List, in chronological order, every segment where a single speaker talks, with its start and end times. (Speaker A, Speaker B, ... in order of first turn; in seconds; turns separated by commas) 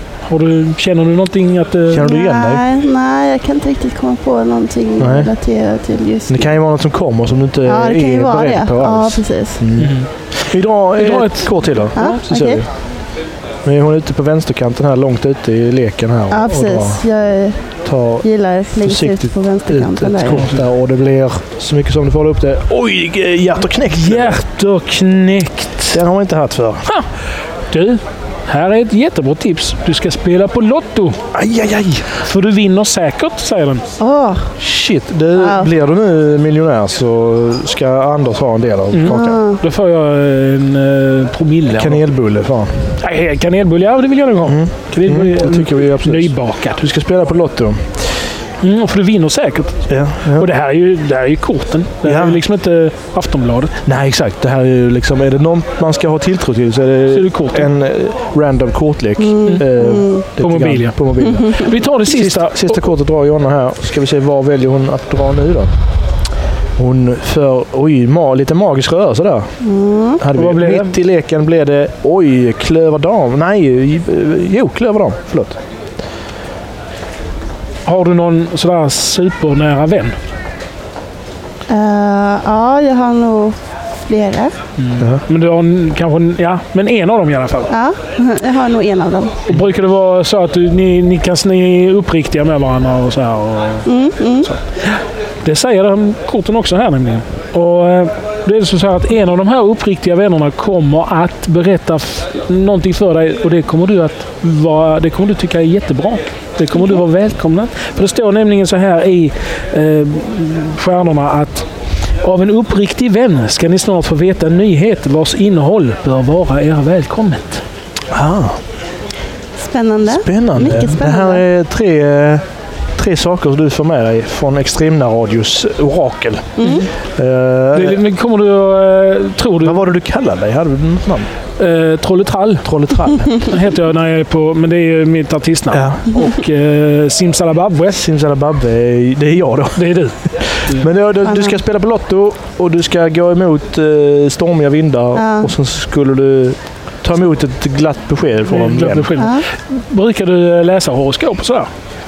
Speaker A: 0.3-2.1, Speaker B: 1.9-2.6, Speaker C: 2.0-6.6, Speaker B: 5.0-5.3, Speaker B: 6.3-12.7, Speaker C: 7.6-9.7, Speaker A: 9.8-10.1, Speaker A: 11.0-12.2, Speaker C: 11.9-12.6, Speaker B: 13.7-17.0, Speaker C: 16.3-17.6, Speaker B: 17.9-18.3, Speaker C: 18.2-20.4, Speaker B: 18.8-24.4, Speaker A: 20.3-20.6, Speaker A: 23.9-26.0, Speaker B: 25.9-26.9, Speaker A: 26.9-27.1, Speaker A: 27.7-31.2, Speaker B: 31.3-32.1, Speaker A: 32.1-33.9, Speaker C: 34.0-34.5, Speaker B: 34.6-39.4, Speaker C: 35.3-35.7, Speaker A: 38.9-42.0, Speaker C: 39.1-39.6, Speaker B: 41.8-42.9, Speaker A: 43.0-46.8, Speaker B: 44.5-48.1, Speaker A: 48.6-53.8, Speaker B: 49.9-50.5, Speaker B: 52.0-52.4, Speaker B: 53.9-65.7, Speaker A: 57.1-57.7, Speaker C: 59.2-60.3, Speaker A: 59.5-62.9, Speaker B: 66.8-69.5, Speaker C: 69.6-70.2, Speaker B: 70.2-75.6, Speaker A: 70.3-71.0, Speaker A: 77.9-80.2, Speaker C: 81.7-84.6, Speaker A: 84.8-87.7, Speaker C: 87.7-89.4, Speaker A: 89.5-93.9, Speaker C: 93.8-94.5, Speaker A: 94.4-117.6, Speaker B: 118.1-118.6, Speaker C: 119.6-121.5, Speaker B: 120.1-122.4, Speaker B: 123.0-128.0, Speaker C: 126.6-126.9, Speaker A: 127.7-129.8, Speaker B: 129.6-131.3, Speaker A: 131.6-138.0, Speaker B: 132.7-133.3, Speaker B: 135.7-136.0, Speaker B: 137.9-139.8, Speaker A: 139.8-140.9, Speaker B: 140.4-149.1, Speaker C: 141.2-141.6, Speaker C: 145.2-145.5, Speaker A: 148.5-151.7, Speaker C: 149.2-149.4